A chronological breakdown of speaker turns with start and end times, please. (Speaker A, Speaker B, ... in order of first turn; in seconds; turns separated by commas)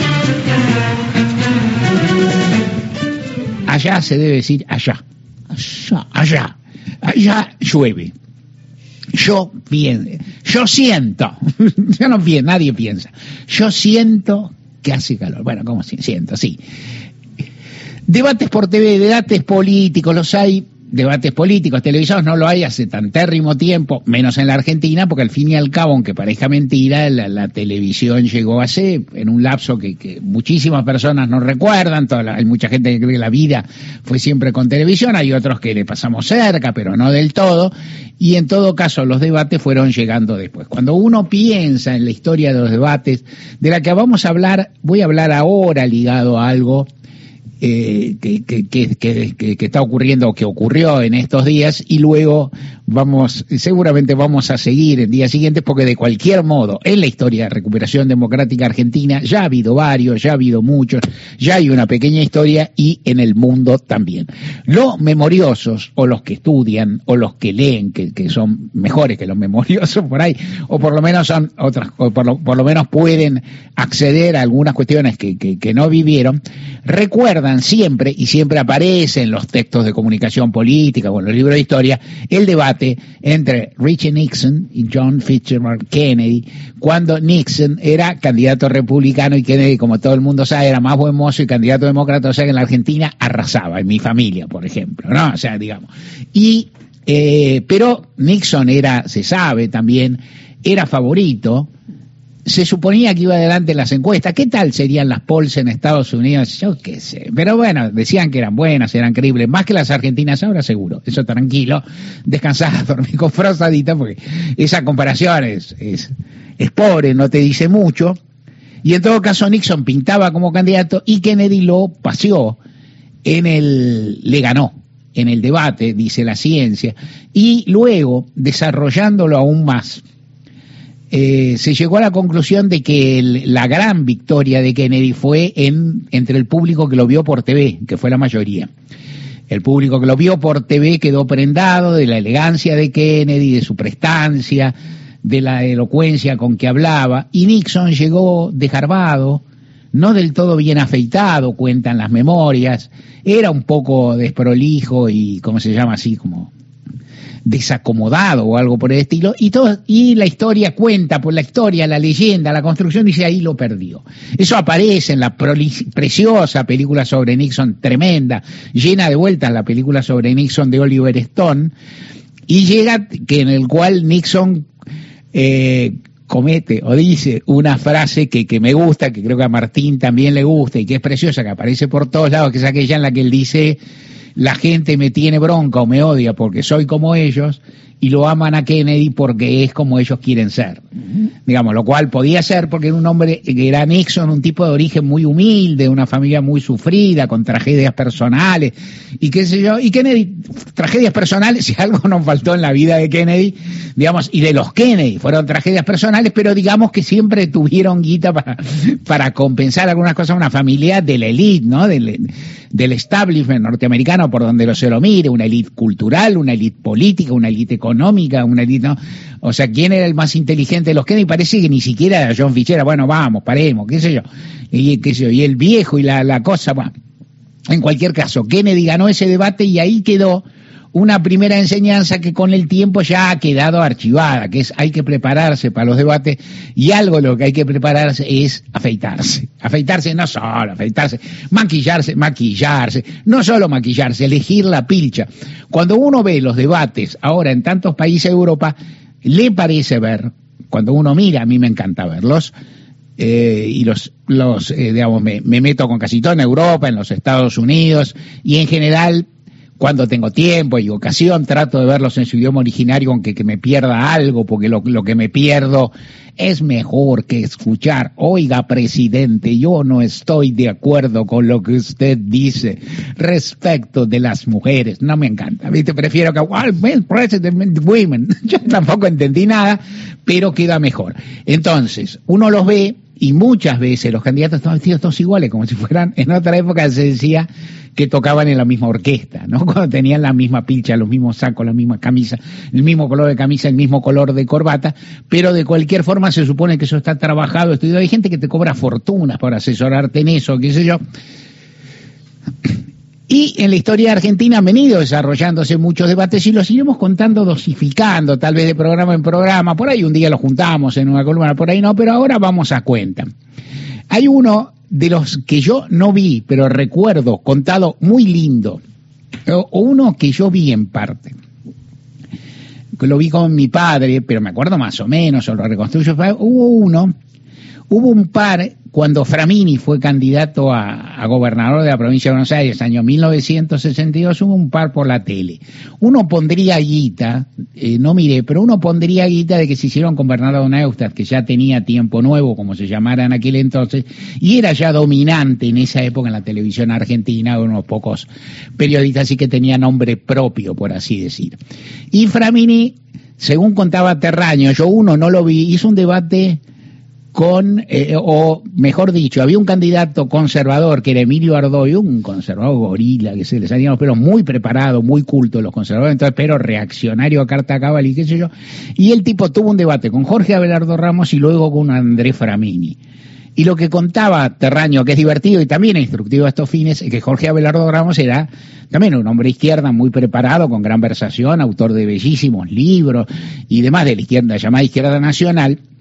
Speaker A: 3.7-5.0, Speaker A: 5.5-8.1, Speaker A: 9.1-16.6, Speaker A: 18.1-46.9, Speaker A: 47.6-101.7, Speaker A: 102.5-118.2, Speaker A: 118.8-122.6, Speaker A: 123.2-130.0, Speaker A: 131.1-138.7, Speaker A: 139.5-156.5, Speaker A: 157.4-171.7, Speaker A: 172.5-174.7, Speaker A: 175.3-183.8, Speaker A: 184.3-190.8, Speaker A: 191.4-226.9, Speaker A: 227.7-252.5, Speaker A: 253.2-259.2, Speaker A: 259.8-301.0, Speaker A: 303.3-313.2, Speaker A: 314.1-318.8, Speaker A: 319.4-321.3, Speaker A: 323.0-327.1, Speaker A: 327.9-351.6, Speaker A: 352.1-356.6, Speaker A: 357.3-373.0, Speaker A: 373.6-385.8